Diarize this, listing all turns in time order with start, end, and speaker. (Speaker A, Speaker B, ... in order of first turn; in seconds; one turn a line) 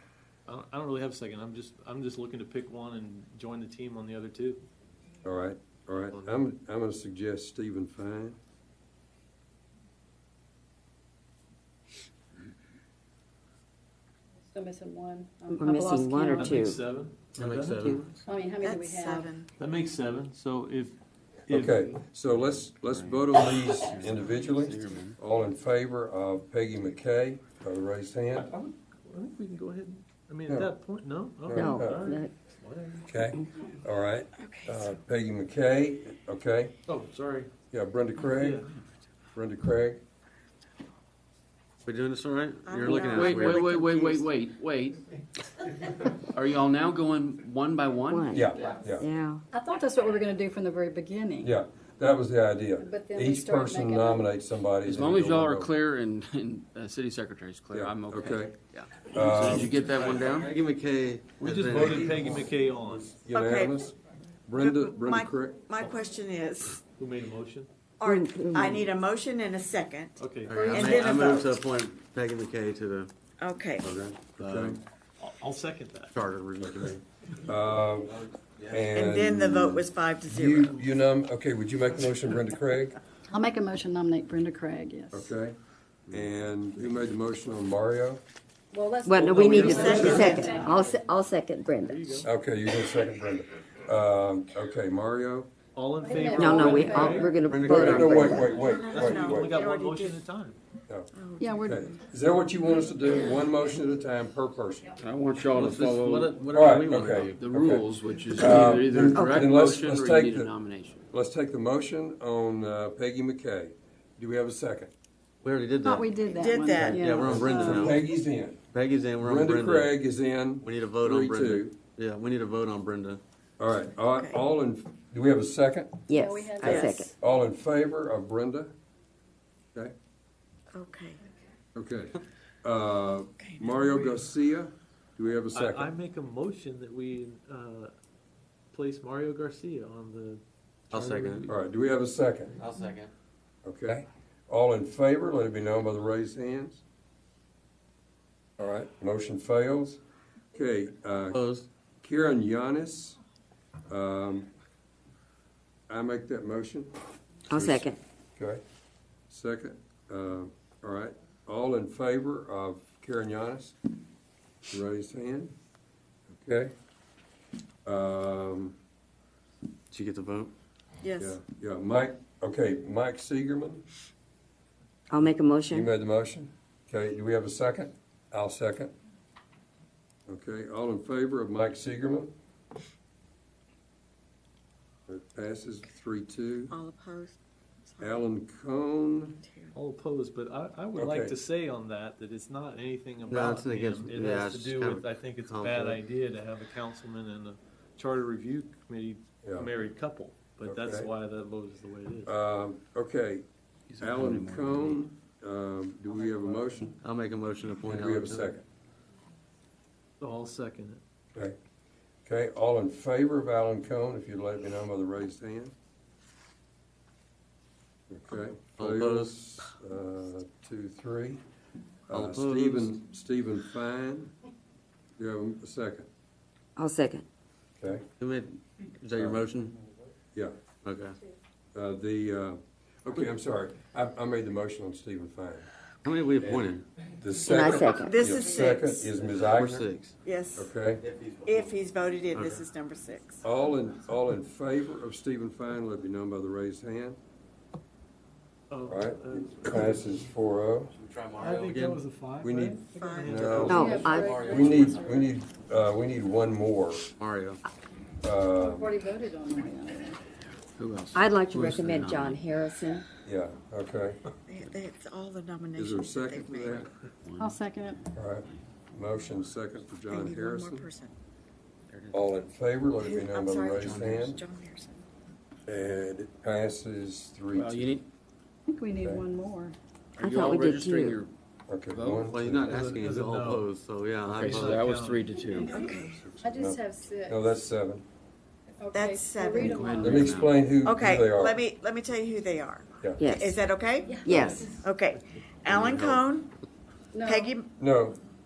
Speaker A: 0.5-4.6
Speaker B: 5.2-8.4
Speaker A: 6.1-6.5
Speaker C: 14.5-16.6
Speaker D: 15.5-16.8
Speaker A: 16.2-18.0
Speaker E: 17.3-18.2
Speaker C: 18.2-19.4
Speaker F: 18.5-19.5
Speaker A: 19.6-20.9
Speaker A: 21.5-21.9
Speaker B: 21.5-28.5
Speaker G: 22.8-25.2
Speaker A: 28.4-33.1
Speaker B: 30.5-30.7
Speaker B: 31.4-32.1
Speaker D: 31.5-32.3
Speaker B: 33.1-36.7
Speaker F: 34.4-34.8
Speaker A: 36.9-37.5
Speaker B: 37.7-38.6
Speaker A: 38.3-38.8
Speaker B: 39.3-40.0
Speaker E: 41.8-43.6
Speaker F: 42.6-44.3
Speaker G: 42.8-45.0
Speaker G: 46.2-48.6
Speaker D: 48.1-48.4
Speaker B: 48.3-49.1
Speaker D: 49.0-49.4
Speaker C: 49.5-51.5
Speaker B: 51.4-55.7
Speaker C: 52.8-54.3
Speaker G: 54.8-60.5
Speaker B: 57.7-58.5
Speaker B: 59.1-59.8
Speaker A: 59.4-60.2
Speaker E: 60.0-62.2
Speaker A: 61.4-63.1
Speaker B: 61.6-64.0
Speaker F: 63.3-63.8
Speaker B: 64.5-65.6
Speaker F: 64.5-66.8
Speaker A: 67.0-67.7
Speaker F: 68.0-71.5
Speaker D: 68.0-68.8
Speaker A: 70.2-70.9
Speaker E: 70.5-73.1
Speaker C: 70.5-71.0
Speaker F: 73.4-73.8
Speaker B: 73.8-74.8
Speaker E: 74.2-74.8
Speaker A: 75.2-76.2
Speaker E: 76.1-77.0
Speaker B: 76.6-82.9
Speaker E: 78.3-78.9
Speaker F: 78.9-80.8
Speaker C: 83.3-85.3
Speaker B: 85.1-85.5
Speaker B: 86.1-88.2
Speaker C: 88.7-90.9
Speaker D: 89.0-92.2
Speaker F: 89.4-90.4
Speaker A: 89.4-90.7
Speaker B: 89.5-90.0
Speaker A: 91.8-92.3
Speaker B: 92.2-95.5
Speaker A: 95.7-97.4
Speaker C: 96.0-97.3
Speaker D: 96.4-98.5
Speaker E: 97.3-99.2
Speaker B: 97.6-99.6
Speaker F: 98.4-100.2
Speaker A: 98.9-100.6
Speaker F: 101.1-102.0
Speaker C: 101.4-101.9
Speaker B: 101.6-104.9
Speaker G: 105.0-111.0
Speaker E: 105.5-107.5
Speaker B: 106.5-110.5
Speaker B: 111.1-114.9
Speaker E: 115.4-118.0
Speaker C: 115.8-117.9
Speaker F: 116.3-117.3
Speaker B: 117.2-118.6
Speaker E: 118.7-119.9
Speaker B: 119.2-121.8
Speaker E: 120.6-123.2
Speaker B: 123.6-126.0
Speaker F: 124.1-124.4
Speaker D: 126.1-127.1
Speaker C: 126.1-126.8
Speaker F: 126.6-127.1
Speaker B: 126.6-128.7
Speaker F: 130.7-131.2
Speaker B: 131.7-135.9
Speaker F: 133.4-133.8
Speaker A: 135.5-137.9
Speaker A: 138.7-141.5
Speaker E: 140.9-141.5
Speaker B: 141.5-142.6
Speaker E: 142.6-143.1
Speaker B: 143.6-146.8
Speaker B: 148.6-150.0
Speaker B: 150.5-151.4
Speaker E: 151.3-151.7
Speaker B: 152.0-153.2
Speaker B: 153.9-154.5
Speaker B: 155.9-156.9
Speaker B: 157.5-158.6
Speaker D: 157.5-158.0
Speaker B: 159.3-163.8
Speaker B: 164.7-165.5
Speaker B: 166.3-166.7
Speaker B: 167.8-168.8
Speaker E: 169.9-170.5
Speaker F: 171.0-171.4
Speaker B: 171.2-173.8
Speaker D: 175.1-175.9
Speaker B: 175.7-178.9
Speaker B: 180.3-182.3
Speaker B: 185.1-186.8
Speaker F: 186.7-188.2
Speaker B: 188.0-189.4
Speaker F: 189.4-189.7
Speaker A: 189.7-202.3
Speaker B: 190.9-191.3
Speaker E: 193.3-196.0
Speaker B: 199.4-199.7
Speaker B: 200.6-201.1
Speaker B: 202.2-207.0
Speaker G: 203.9-205.0
Speaker A: 206.1-206.6
Speaker E: 207.0-208.5
Speaker B: 207.8-208.6
Speaker A: 210.2-211.0
Speaker B: 212.2-215.7
Speaker B: 218.1-221.4
Speaker E: 218.8-219.3
Speaker B: 222.1-224.3
Speaker E: 222.1-223.0
Speaker B: 225.2-226.1
Speaker D: 226.8-227.2
Speaker B: 227.8-228.1
Speaker E: 228.2-229.7
Speaker B: 229.2-229.5
Speaker E: 230.8-231.2
Speaker B: 231.7-235.7
Speaker E: 236.0-236.8
Speaker B: 236.4-239.9
Speaker D: 237.4-238.2
Speaker F: 238.0-239.1
Speaker E: 239.1-240.2
Speaker F: 240.2-240.7
Speaker B: 240.5-241.0
Speaker E: 240.9-241.8
Speaker F: 241.4-243.4
Speaker E: 242.3-242.7
Speaker B: 243.4-247.2
Speaker A: 248.7-250.3
Speaker B: 248.8-250.9
Speaker E: 250.9-252.0
Speaker A: 251.3-254.1
Speaker B: 252.4-257.1
Speaker F: 252.9-254.1
Speaker E: 253.3-255.2
Speaker D: 253.7-254.4
Speaker C: 253.7-255.3
Speaker E: 257.2-257.6
Speaker B: 258.2-259.0
Speaker C: 258.5-260.2
Speaker G: 260.8-262.4
Speaker D: 261.1-263.0
Speaker B: 263.2-264.3
Speaker F: 264.5-266.9
Speaker B: 265.7-266.9
Speaker G: 267.2-267.6
Speaker C: 267.4-268.1
Speaker B: 268.1-270.9
Speaker F: 270.1-271.1
Speaker E: 271.9-272.2
Speaker B: 272.1-274.4
Speaker F: 273.0-275.0
Speaker G: 273.8-274.4
Speaker B: 275.7-277.9
Speaker G: 277.5-278.0
Speaker C: 278.7-279.8
Speaker B: 279.0-279.2
Speaker G: 280.2-281.3
Speaker D: 280.2-281.2
Speaker B: 281.7-282.6
Speaker G: 281.9-282.7
Speaker E: 282.3-284.9
Speaker A: 282.6-283.7
Speaker G: 284.2-285.7
Speaker A: 284.4-285.3
Speaker C: 285.4-287.5
Speaker F: 285.7-286.1
Speaker B: 285.9-288.0
Speaker C: 288.8-290.3
Speaker F: 288.9-290.2
Speaker G: 289.6-290.6
Speaker B: 290.0-291.6
Speaker F: 290.8-296.5
Speaker B: 293.0-293.3
Speaker D: 293.2-293.6
Speaker C: 294.0-294.8
Speaker D: 294.2-294.7
Speaker E: 295.7-296.2
Speaker C: 297.1-297.5
Speaker F: 297.2-297.7
Speaker B: 297.8-298.2